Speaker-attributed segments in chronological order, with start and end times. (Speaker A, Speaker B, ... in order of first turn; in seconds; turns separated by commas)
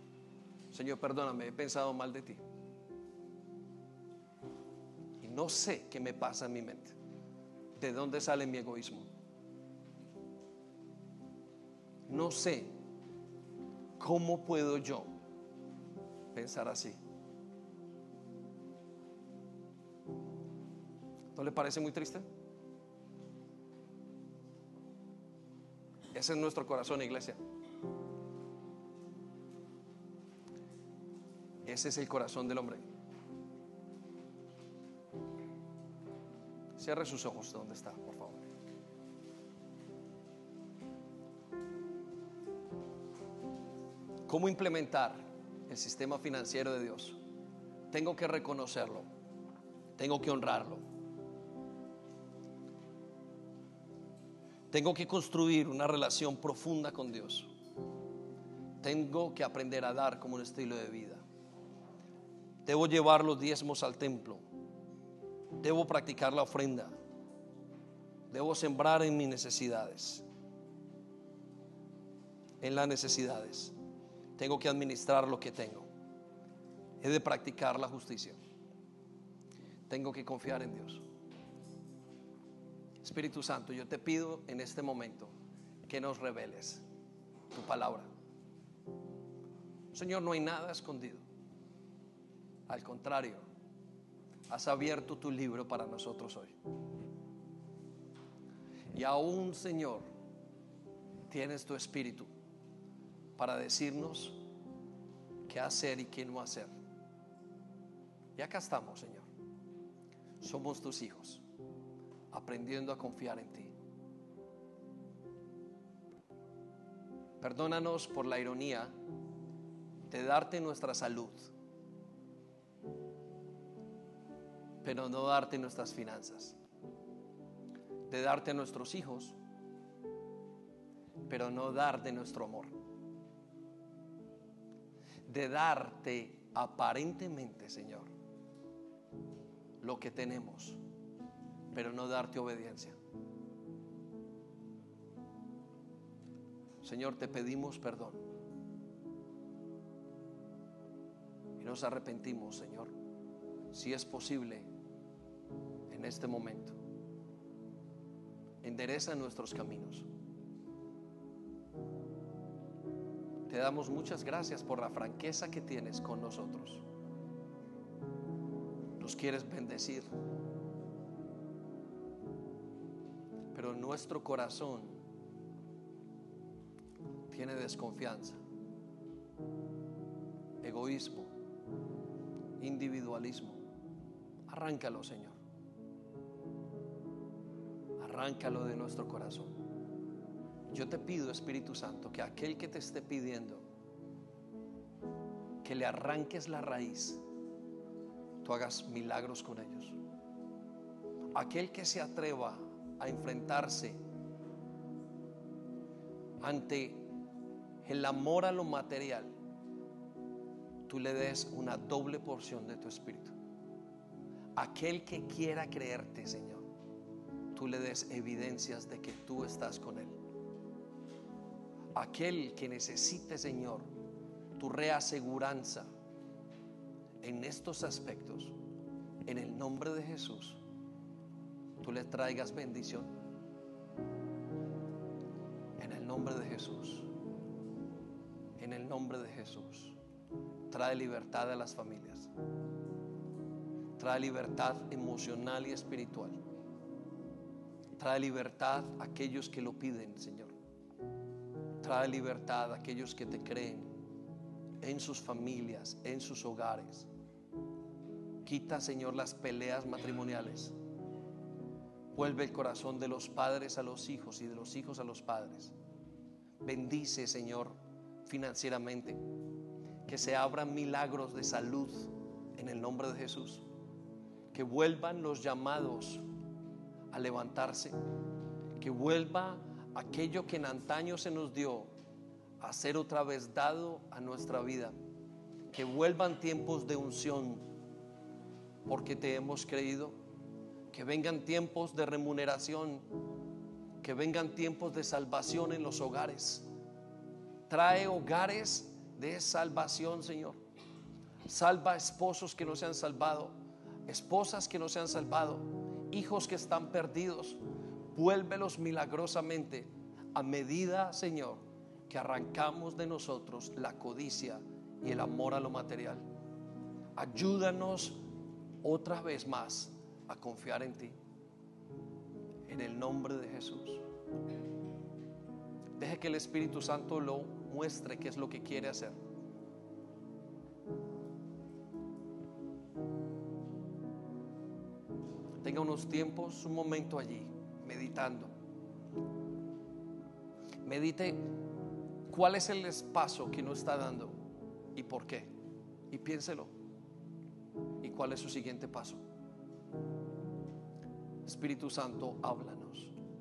Speaker A: 0.7-2.4, Speaker A: 5.2-7.0, Speaker A: 7.8-9.1, Speaker A: 12.1-12.7, Speaker A: 14.0-15.1, Speaker A: 16.3-17.0, Speaker A: 21.3-22.2, Speaker A: 26.1-27.4, Speaker A: 31.6-32.8, Speaker A: 36.8-38.4, Speaker A: 44.3-47.2, Speaker A: 47.9-49.0, Speaker A: 50.0-50.8, Speaker A: 54.7-57.5, Speaker A: 58.8-61.2, Speaker A: 62.6-64.4, Speaker A: 65.6-66.9, Speaker A: 68.3-70.2, Speaker A: 72.6-73.7, Speaker A: 74.4-75.9, Speaker A: 77.0-78.4, Speaker A: 79.9-81.0, Speaker A: 83.0-85.3, Speaker A: 85.9-86.8, Speaker A: 87.5-88.1, Speaker A: 89.9-91.2, Speaker A: 92.7-93.4, Speaker A: 94.5-96.5, Speaker A: 98.9-100.0, Speaker A: 101.3-102.3, Speaker A: 103.4-104.4, Speaker A: 105.5-106.7, Speaker A: 108.3-109.3, Speaker A: 110.4-111.4, Speaker A: 112.3-113.7, Speaker A: 117.4-118.9, Speaker A: 120.1-121.5, Speaker A: 124.8-126.6, Speaker A: 128.1-129.3, Speaker A: 131.3-132.7, Speaker A: 135.3-138.1, Speaker A: 139.8-140.8, Speaker A: 141.7-143.0, Speaker A: 146.8-148.2, Speaker A: 151.6-152.9, Speaker A: 153.7-154.7, Speaker A: 155.9-156.8, Speaker A: 158.6-160.1, Speaker A: 163.5-166.8, Speaker A: 169.0-170.1, Speaker A: 173.5-175.0, Speaker A: 177.3-178.4, Speaker A: 180.6-181.3, Speaker A: 182.6-183.6, Speaker A: 184.5-185.3, Speaker A: 188.0-189.6, Speaker A: 190.7-193.6, Speaker A: 195.6-197.2, Speaker A: 198.4-200.0, Speaker A: 201.3-204.0, Speaker A: 206.4-207.1, Speaker A: 207.8-209.3, Speaker A: 210.9-213.3, Speaker A: 214.6-216.6, Speaker A: 217.5-220.2, Speaker A: 221.9-223.9, Speaker A: 224.6-225.9, Speaker A: 227.2-228.5, Speaker A: 229.2-230.6, Speaker A: 231.8-233.1, Speaker A: 235.8-237.1, Speaker A: 238.6-240.0, Speaker A: 240.7-242.3, Speaker A: 244.0-246.4, Speaker A: 248.0-250.5, Speaker A: 251.8-253.9, Speaker A: 254.8-257.1, Speaker A: 258.4-260.7, Speaker A: 262.1-265.7, Speaker A: 266.6-269.2, Speaker A: 270.0-273.6, Speaker A: 274.5-276.2, Speaker A: 277.1-277.9, Speaker A: 278.8-281.9, Speaker A: 282.6-284.9, Speaker A: 285.7-287.6, Speaker A: 288.9-290.1, Speaker A: 290.9-293.0, Speaker A: 294.0-296.6, Speaker A: 297.7-300.6, Speaker A: 301.4-303.5, Speaker A: 304.1-307.6, Speaker A: 308.1-316.2, Speaker A: 317.1-318.2, Speaker A: 318.8-321.1, Speaker A: 322.7-324.0, Speaker A: 326.0-329.1, Speaker A: 335.6-338.5, Speaker A: 340.8-341.5, Speaker A: 342.3-344.4, Speaker A: 344.9-345.5, Speaker A: 346.1-346.7, Speaker A: 348.0-349.2, Speaker A: 351.4-353.2